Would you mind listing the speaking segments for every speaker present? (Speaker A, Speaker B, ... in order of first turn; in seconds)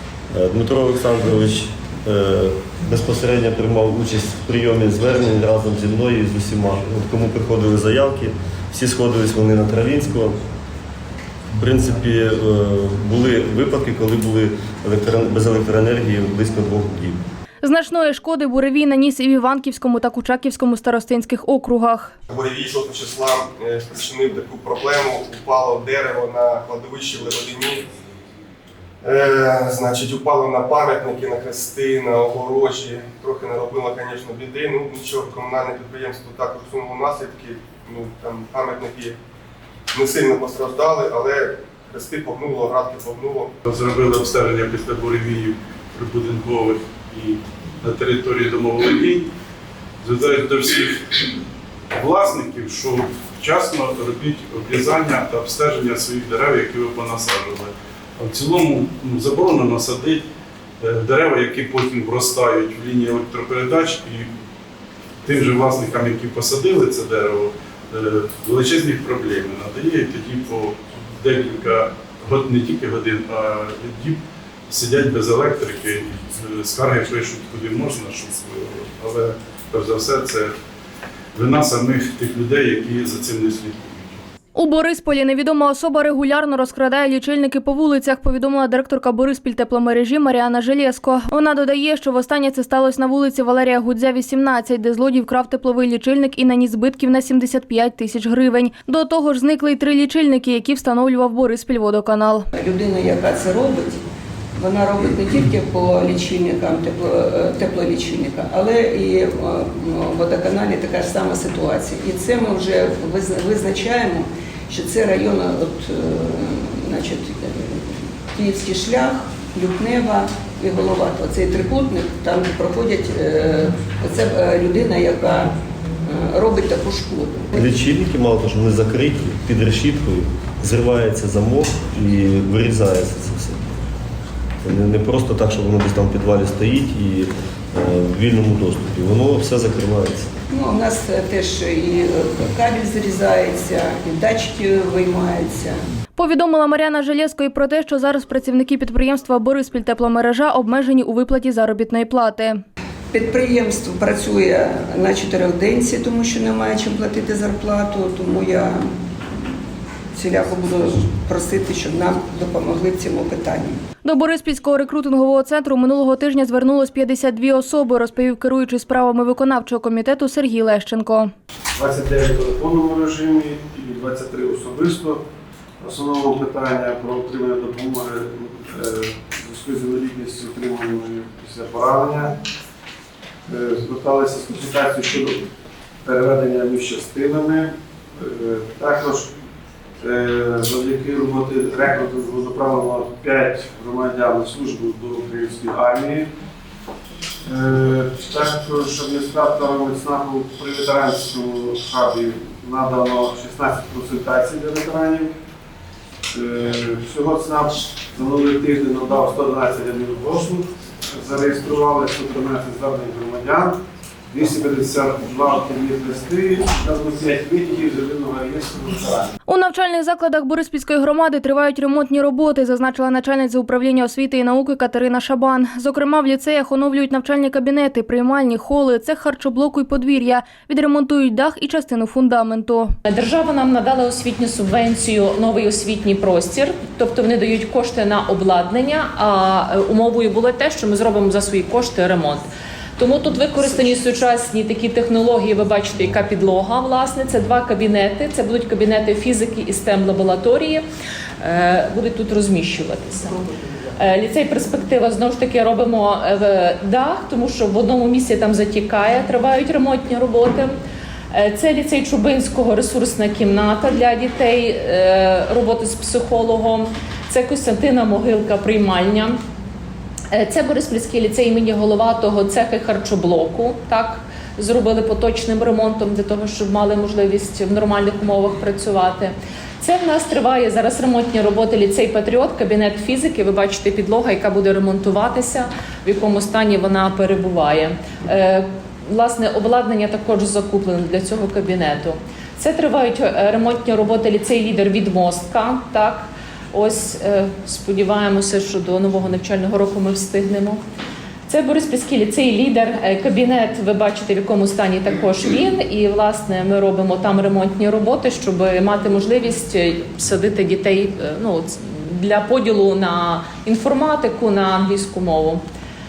Speaker A: 0.3-10.4, 11.5-17.2, 127.5-133.8, 134.6-140.3
Speaker B: 17.6-22.1, 84.5-102.5, 146.2-152.6, 164.1-171.3, 219.5-232.9
Speaker C: 22.3-27.8, 29.0-39.2, 39.9-43.5
Speaker D: 43.7-49.3, 50.0-51.0, 51.9-60.2, 60.8-64.3, 65.2-80.5, 81.4-84.2
Speaker E: 102.5-104.0, 104.6-125.5, 126.0-127.5, 140.5-145.8, 153.1-158.9, 160.1-163.8
Speaker F: 171.8-175.2, 175.8-182.4, 183.5-185.4, 186.0-189.3, 190.0-196.3, 197.4-205.3, 206.3-213.8, 214.3-219.3
Speaker G: 233.1-250.8, 251.4-253.4, 254.0-260.8, 261.3-269.4, 270.3-300.8, 301.5-315.6